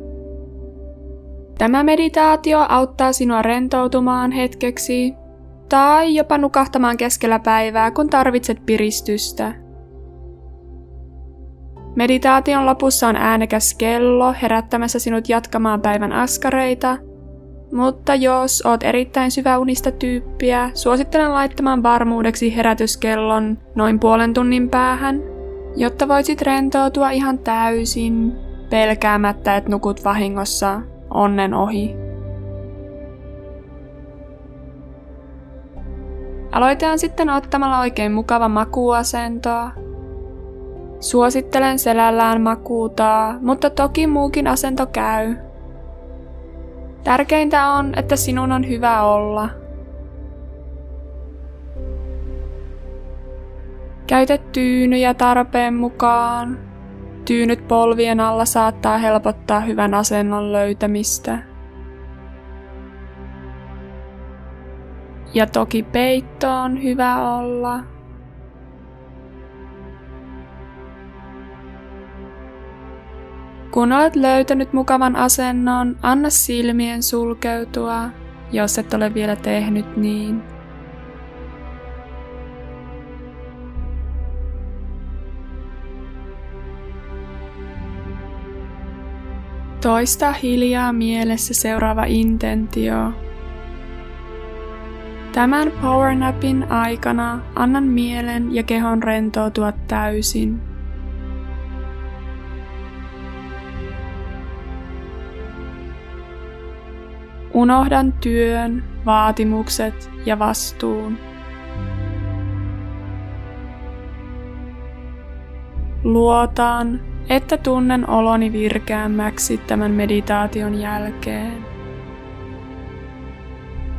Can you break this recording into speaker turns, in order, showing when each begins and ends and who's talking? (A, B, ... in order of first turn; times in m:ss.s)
0:01.6-0:09.6 A
0:12.0-0:17.0 A
0:17.7-0:32.0 A
0:36.5-0:39.8 A
0:41.0-0:45.4 A
0:47.0-0:49.5 A
0:54.1-0:56.6 A
0:57.2-1:01.4 A
1:05.3-1:07.9 A
1:13.7-1:20.5 A
1:29.8-1:33.2 A
1:35.3-1:40.7 A
1:47.5-1:51.2 A
1:56.0-2:01.7 A